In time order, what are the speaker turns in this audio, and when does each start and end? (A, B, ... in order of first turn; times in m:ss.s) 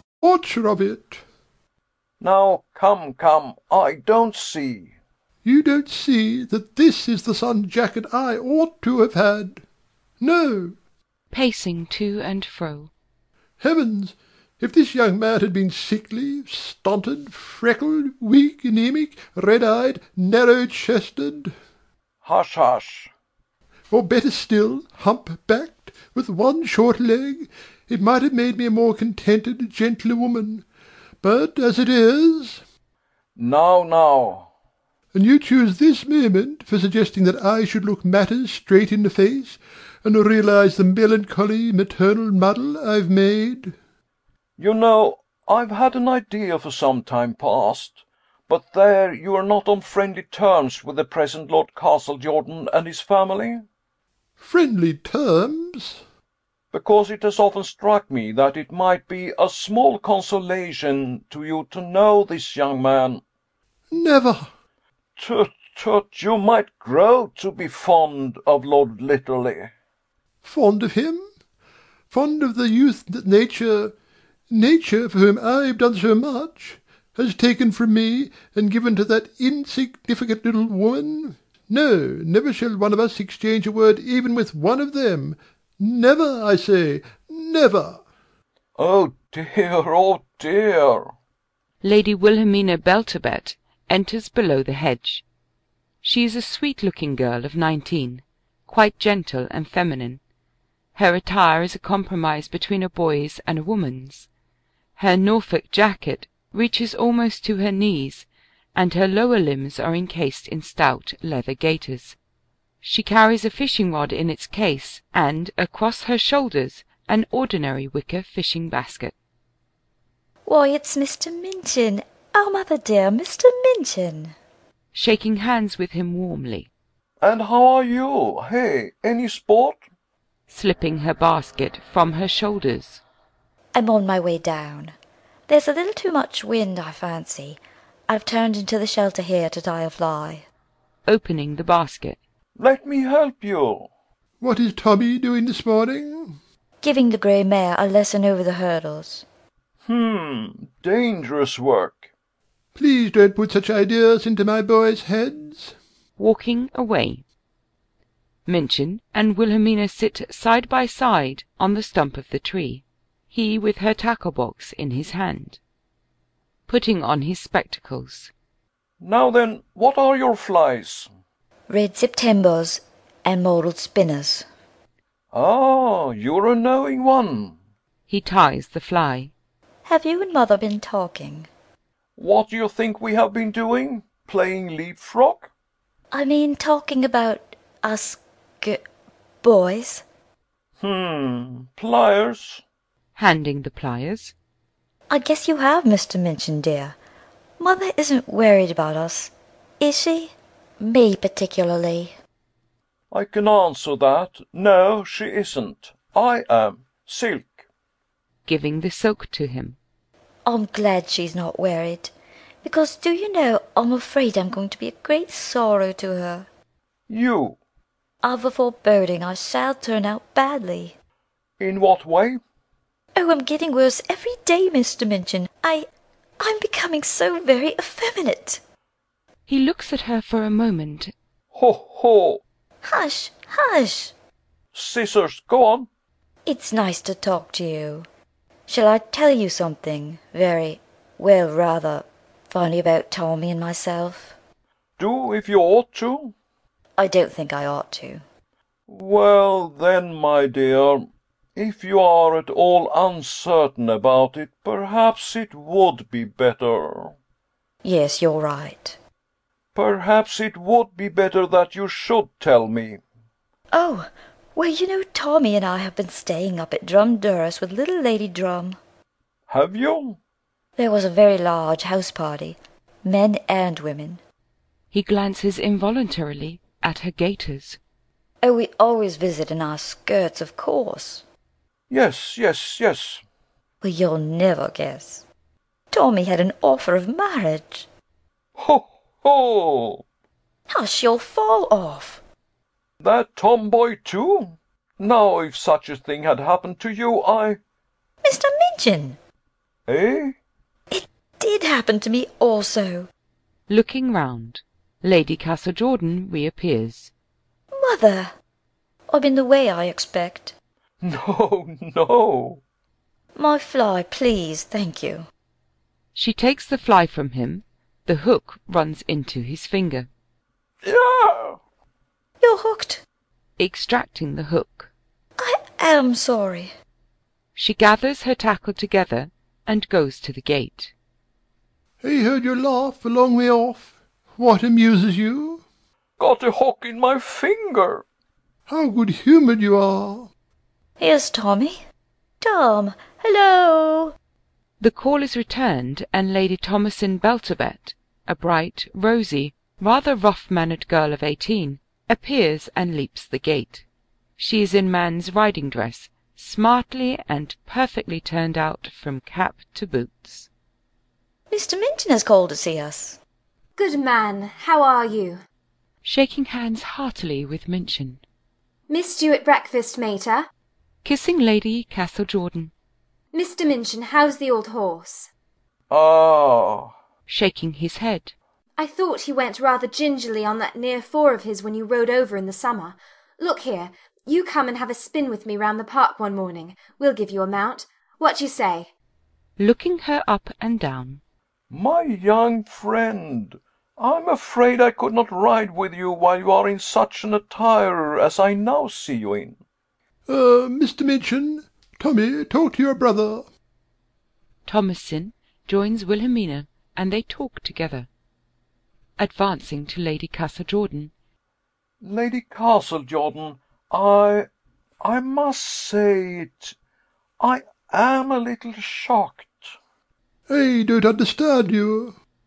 0:00.2-0:01.2 A
0:02.2-0:04.9 B
0:05.4-0:09.6 A
0:10.2-0:10.8 A
0:11.3-0:12.9 C
0:13.6-0:21.5 A
0:22.2-0:23.1 B
0:23.9-0:30.6 A
0:31.2-0:32.6 A
0:33.4-0:34.5 B
0:35.1-0:43.8 A
0:44.6-0:48.0 B
0:48.5-0:53.6 B
0:54.4-0:56.0 A
0:56.7-1:03.2 B
1:03.9-1:04.5 A
1:05.2-1:09.7 B
1:10.4-1:11.2 A
1:12.1-1:14.0 A
1:14.5-1:28.0 A
1:28.8-1:31.1 B
1:31.8-1:35.2 C
1:36.0-1:40.2 C
1:41.0-1:44.3 C
1:45.0-1:52.2 C
1:52.8-1:59.1 C
2:00.5-2:04.3 D
2:04.9-2:06.7 C
2:07.2-2:09.8 B
2:10.5-2:13.0 C
2:13.8-2:15.0 D
2:15.5-2:20.5 D
2:21.1-2:22.2 C
2:22.6-2:23.9 B
2:24.4-2:26.4 A
2:26.8-2:29.3 D
2:29.9-2:32.1 B
2:32.8-2:35.8 A
2:36.2-2:37.2 C
2:38.5-2:45.6 C
2:46.7-2:48.3 C
2:49.0-2:51.1 B
2:51.7-2:54.5 D
2:55.3-2:57.6 B
2:58.1-2:59.3 C
2:59.8-3:01.5 D
3:02.2-3:05.5 B
3:06.1-3:08.8 D
3:09.4-3:10.0 D
3:10.8-3:12.6 B
3:13.2-3:14.4 C
3:15.1-3:17.0 D
3:17.6-3:22.2 D
3:23.1-3:27.6 B
3:28.4-3:29.8 C
3:30.5-3:32.1 D
3:32.6-3:36.5 D
3:37.1-3:37.6 B
3:38.2-3:41.0 D
3:41.6-3:42.4 B
3:43.2-3:45.9 D
3:46.4-3:48.6 D
3:49.5-3:51.1 C
3:51.5-3:52.4 B
3:52.8-3:54.1 D
3:54.7-3:55.9 B
3:56.5-3:58.1 D
3:58.7-4:04.4 D
4:05.0-4:06.3 B
4:07.0-4:08.2 D
4:08.9-4:17.2 B
4:17.8-4:19.0 D
4:19.8-4:23.0 B
4:23.7-4:28.8 D
4:29.5-4:30.2 B
4:30.8-4:34.2 D
4:34.9-4:37.8 C
4:38.4-4:41.2 D
4:41.9-4:43.2 B
4:43.8-4:45.2 D
4:45.9-4:47.9 D
4:48.6-4:50.0 B
4:50.7-4:52.2 D
4:53.0-4:57.6 B
4:58.2-4:59.2 D
4:59.9-5:00.4 B
5:00.9-5:03.1 D
5:03.7-5:07.1 C
5:07.7-5:08.3 D
5:09.1-5:10.5 D
5:11.0-5:12.6 B
5:13.4-5:15.3 D
5:16.1-5:20.1 C
5:20.8-5:21.6 B
5:22.4-5:23.0 D
5:23.6-5:24.9 C
5:25.4-5:26.7 D
5:27.6-5:30.9 C
5:32.0-5:35.6 A
5:36.2-5:38.0 B
5:38.7-5:40.3 A
5:41.0-5:41.8 D
5:42.4-5:44.2 D
5:44.8-5:53.8 C
5:54.4-6:00.5 C
6:01.5-6:03.2 D
6:03.8-6:05.4 E
6:06.0-6:08.2 C
6:08.9-6:10.5 E
6:11.0-6:12.7 C
6:13.3-6:15.3 E
6:15.9-6:16.9 B
6:17.3-6:18.3 C
6:18.8-6:28.9 E
6:29.6-6:31.2 C
6:31.7-6:39.6 B
6:40.3-6:43.4 A
6:44.7-6:48.1 C
6:49.2-6:51.1 C
6:52.0-6:54.5 B
6:55.0-6:56.8 B
6:57.4-6:59.7 B
7:00.5-7:02.2 A